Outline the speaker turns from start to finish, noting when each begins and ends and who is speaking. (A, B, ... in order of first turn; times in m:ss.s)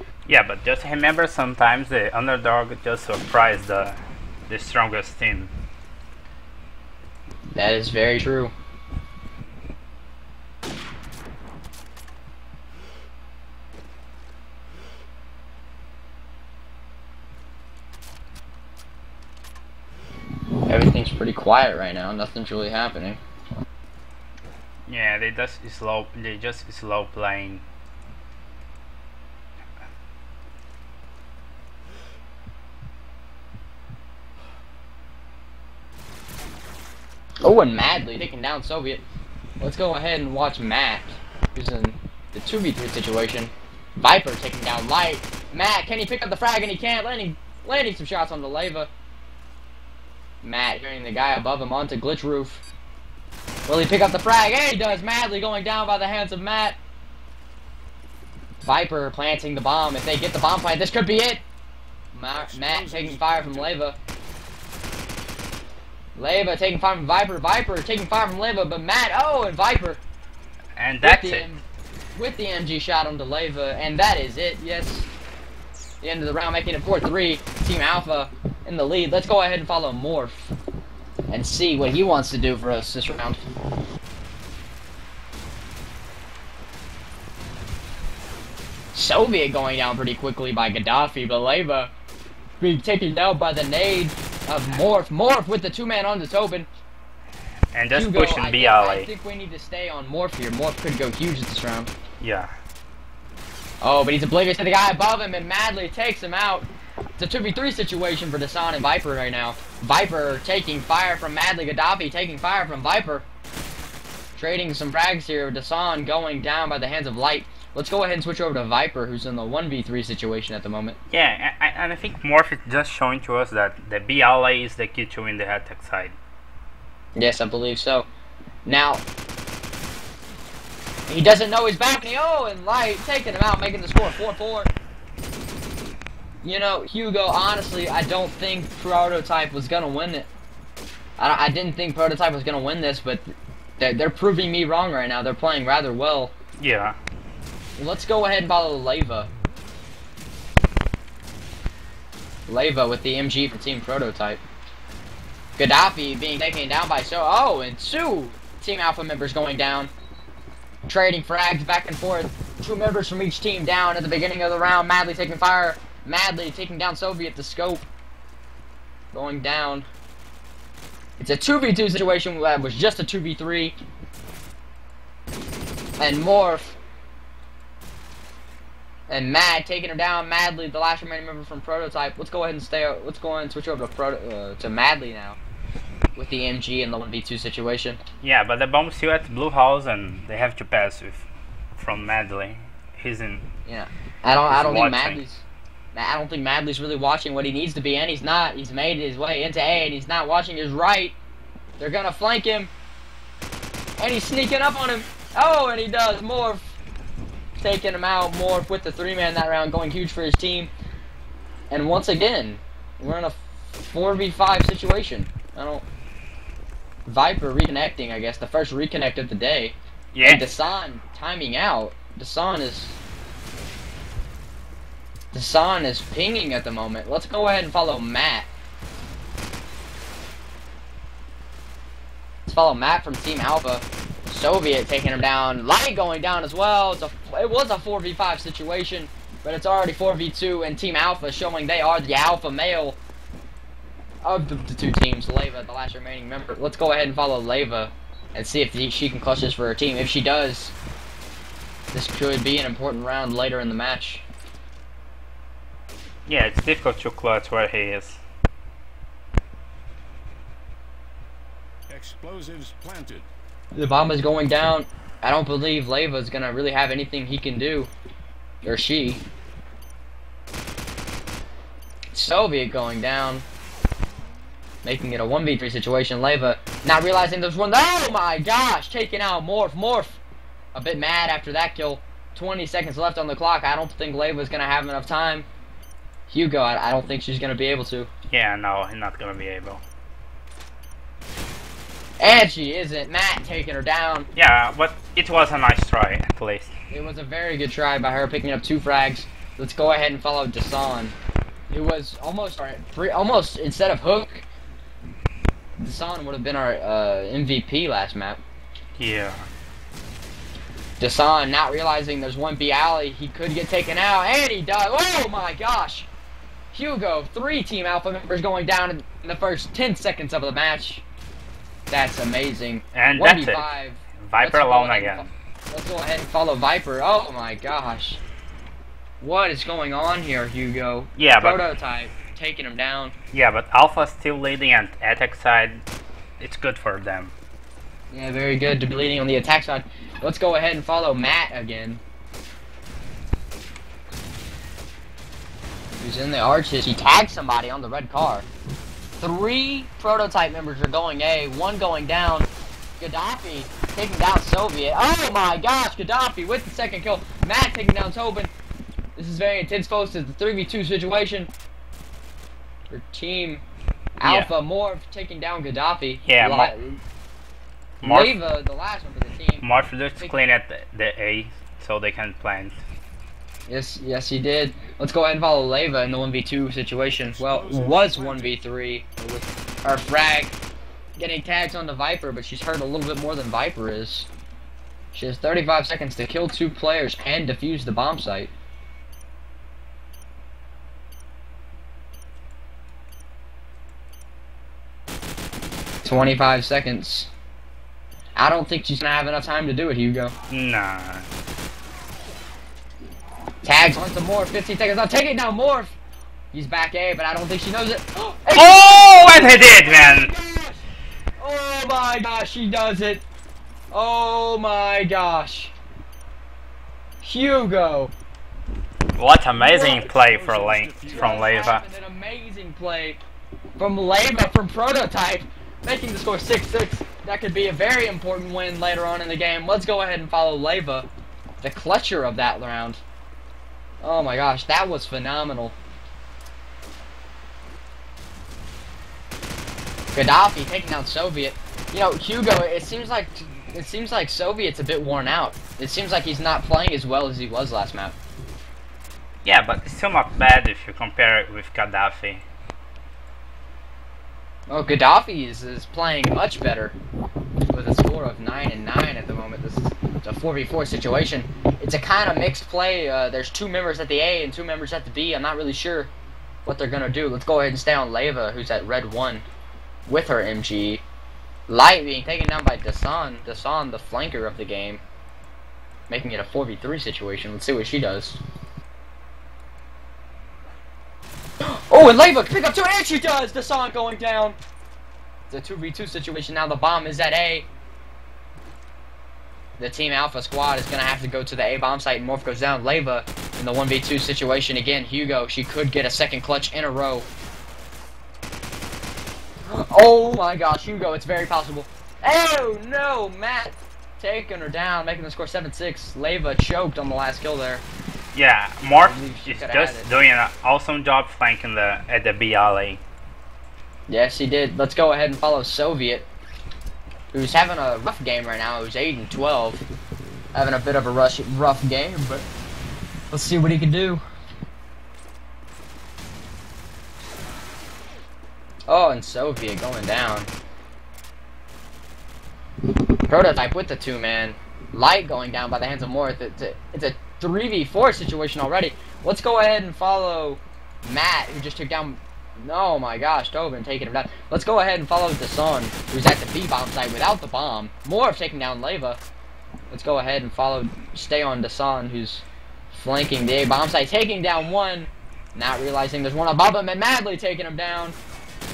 0:00.2-0:05.5 A
0:07.5-0:08.5 B
0:20.7-0:23.2 B
0:24.9-0:27.6 A
0:37.4-0:39.0 B
0:39.6-0:48.9 B
0:50.4-0:52.6 B
0:53.7-0:56.8 B
0:58.6-1:01.4 B
1:02.1-1:04.0 B
1:02.3-1:03.8 C
1:06.2-1:10.0 B
1:10.8-1:11.5 A
1:11.0-1:15.1 B
1:16.0-1:20.5 B
1:21.3-1:23.4 B
1:28.9-1:31.9 B
1:32.6-1:36.7 B
1:37.7-1:39.1 A
1:37.9-1:41.9 B
1:42.2-1:42.5 A
1:43.8-1:53.2 B
1:54.4-2:01.0 B
2:01.1-2:06.2 A
2:07.2-2:08.1 B
2:08.6-2:09.0 B
2:11.1-2:14.7 B
2:16.4-2:20.3 B
2:21.2-2:26.3 B
2:26.6-2:27.0 A
2:27.8-2:29.3 B
2:32.5-2:34.4 B
2:35.6-2:39.9 B
2:40.9-2:47.8 B
2:49.1-2:49.9 B
2:51.2-2:53.7 B
2:56.0-2:56.8 B
2:59.1-3:05.4 B
3:06.2-3:08.0 B
3:08.2-3:13.4 A
3:13.6-3:21.2 B
3:14.5-3:15.2 A
3:21.8-3:22.7 B
3:24.0-3:26.7 B
3:27.6-3:30.7 B
3:31.7-3:35.8 B
3:37.0-3:43.0 B
3:40.1-3:40.4 A
3:45.3-3:48.5 B
3:52.5-4:03.0 B
4:04.2-4:10.7 B
4:11.9-4:14.2 B
4:16.2-4:18.2 A
4:21.9-4:23.3 C
4:23.7-4:27.9 B
4:28.6-4:29.2 B
4:32.1-4:33.4 B
4:34.8-4:40.2 B
4:40.7-4:45.4 B
4:46.3-4:48.1 B
4:48.3-4:49.8 A
4:52.2-4:54.3 B
4:54.4-4:56.7 A
4:56.9-5:01.1 B
5:01.7-5:04.4 B
5:05.8-5:08.4 B
5:09.0-5:09.5 A
5:11.0-5:16.1 B
5:16.7-5:21.0 B
5:21.9-5:28.2 B
5:22.9-5:25.3 A
5:29.2-5:33.1 B
5:31.2-5:31.6 A
5:33.3-5:35.8 A
5:36.4-5:37.3 A
5:38.1-5:42.0 B
5:46.0-5:48.5 B
5:49.2-5:52.5 B
5:53.0-5:58.5 B
5:59.2-6:01.5 B
6:02.9-6:03.6 B
6:04.2-6:07.0 B
6:04.2-6:04.5 A
6:06.2-6:06.7 A
6:08.0-6:08.4 A
6:08.0-6:09.6 B
6:09.6-6:12.8 A
6:13.7-6:20.5 B
6:17.3-6:18.6 C
6:21.2-6:24.3 B
6:25.1-6:28.5 B
6:36.0-6:37.3 B
6:38.4-6:40.3 B
6:40.5-6:41.2 A
6:43.6-6:45.9 B
6:46.5-6:50.8 B
6:48.5-6:50.3 A
6:51.4-6:53.2 B
6:53.9-6:55.7 B
6:57.2-6:58.1 B
6:59.2-7:01.8 A
6:59.6-7:01.8 C
7:01.0-7:03.2 B
7:03.8-7:11.1 B
7:11.6-7:13.0 B
7:14.0-7:15.8 B
7:20.1-7:28.2 B
7:29.4-7:32.4 A
7:34.7-7:37.0 B
7:37.7-7:46.1 B
7:46.6-7:49.4 B
7:50.1-7:51.0 B
7:51.7-7:55.0 B
7:56.1-7:58.4 B
8:01.6-8:04.6 B
8:05.5-8:07.6 B
8:09.8-8:17.3 B
8:19.7-8:27.8 B
8:28.3-8:33.0 A
8:29.0-8:30.1 B
8:34.1-8:36.3 B
8:37.3-8:39.8 B
8:40.5-8:42.4 B
8:43.3-8:44.2 B
8:48.9-8:50.5 B
8:53.3-9:09.2 B
9:09.9-9:18.2 B